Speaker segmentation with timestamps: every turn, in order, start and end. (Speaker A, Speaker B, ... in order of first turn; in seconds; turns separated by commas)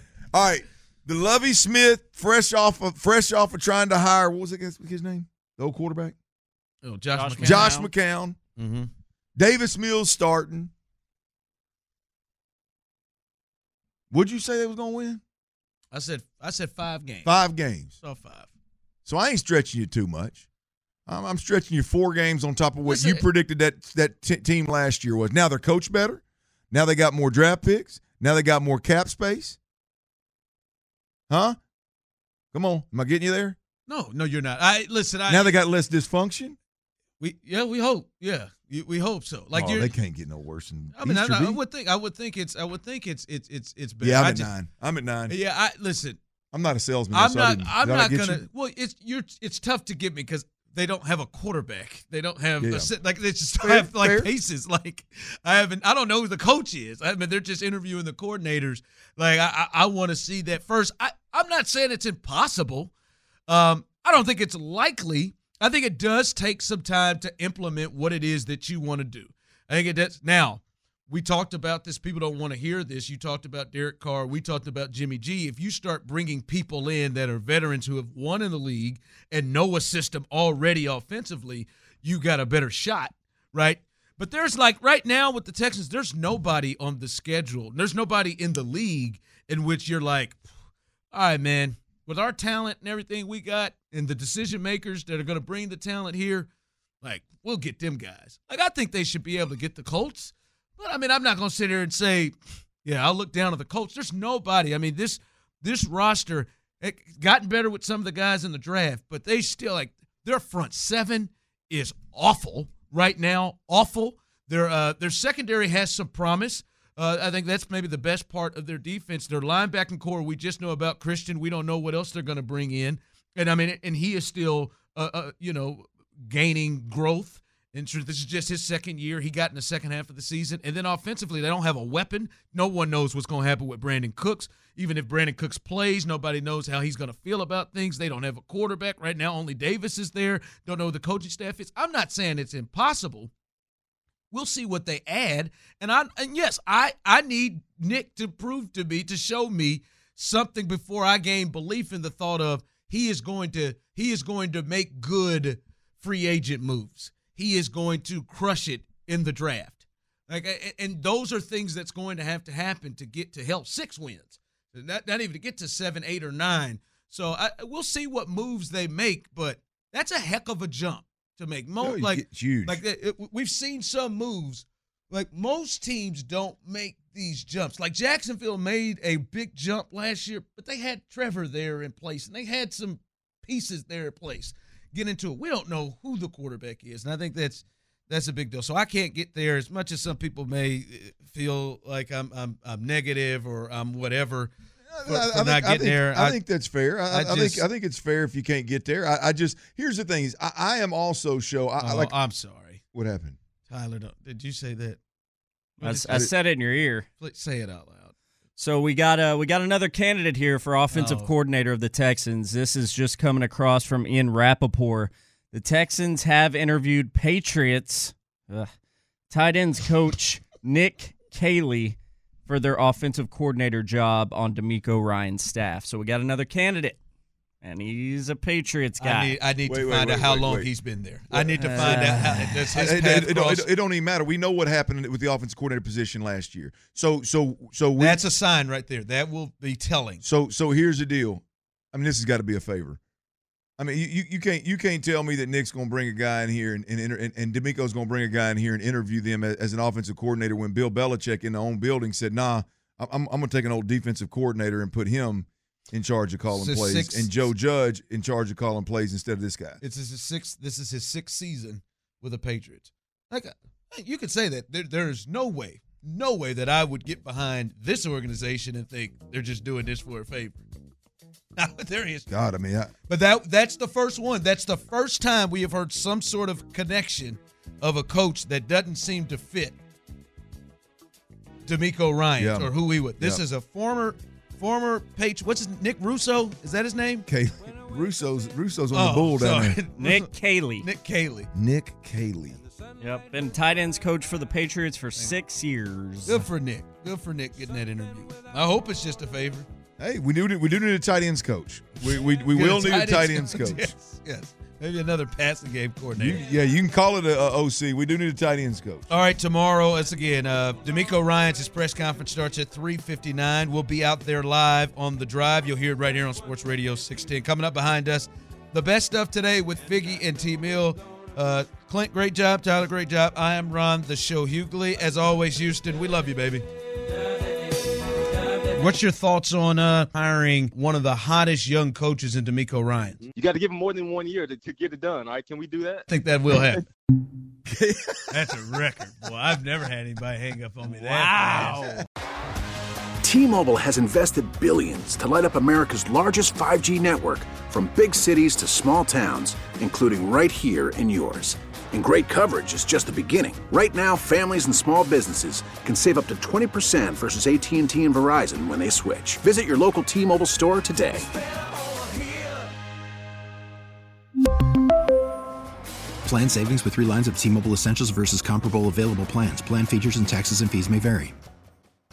Speaker A: 0.3-6.1, Speaker B: 6.8-7.8, Speaker C: 7.1-7.9, Speaker A: 7.4-8.4, Speaker B: 8.6-8.9, Speaker A: 9.4-10.7, Speaker A: 14.1-15.2, Speaker B: 15.9-17.4, Speaker A: 17.2-17.9, Speaker B: 18.0-18.5, Speaker A: 19.0-20.4, Speaker A: 21.1-29.6, Speaker B: 22.9-23.2, Speaker A: 31.3-31.6, Speaker A: 32.5-33.6, Speaker B: 33.9-35.6, Speaker A: 35.3-36.6, Speaker B: 37.2-39.9, Speaker A: 39.5-41.6, Speaker B: 40.9-44.5, Speaker A: 44.0-45.4, Speaker B: 45.3-46.2, Speaker A: 46.5-48.4, Speaker B: 47.1-62.9, Speaker A: 52.6-52.9, Speaker A: 53.6-54.3, Speaker B: 63.5-90.4, Speaker B: 91.1-96.5, Speaker B: 97.0-143.3, Speaker B: 144.3-194.5, Speaker A: 171.8-172.8, Speaker A: 194.9-202.1, Speaker B: 195.0-196.4, Speaker B: 197.1-197.6, Speaker B: 201.8-202.8, Speaker A: 202.9-203.4, Speaker B: 203.7-205.0, Speaker B: 205.8-206.3, Speaker C: 205.8-207.1, Speaker B: 207.2-208.1, Speaker C: 208.6-218.7, Speaker B: 210.9-211.3, Speaker C: 219.3-227.0, Speaker C: 227.6-229.4, Speaker B: 229.0-233.7, Speaker A: 229.6-230.7, Speaker A: 231.3-238.2, Speaker C: 231.6-232.7, Speaker B: 238.0-240.2, Speaker A: 240.2-243.0, Speaker A: 243.8-259.8, Speaker B: 256.5-257.5, Speaker B: 259.8-270.6, Speaker B: 271.6-272.3, Speaker A: 272.3-272.9, Speaker B: 273.1-279.8, Speaker B: 281.6-287.3, Speaker A: 282.4-283.4, Speaker A: 287.2-289.8, Speaker B: 288.9-291.5, Speaker C: 289.9-290.9, Speaker A: 291.5-292.6, Speaker C: 293.0-296.4, Speaker B: 296.2-299.7, Speaker A: 300.0-303.9, Speaker B: 302.5-306.4, Speaker A: 306.1-309.1, Speaker B: 309.1-326.6, Speaker B: 328.7-333.2, Speaker D: 333.3-336.0, Speaker B: 336.1-336.9, Speaker A: 337.6-338.4, Speaker B: 338.3-342.0, Speaker A: 341.4-341.9, Speaker E: 343.2-361.3, Speaker F: 366.2-371.3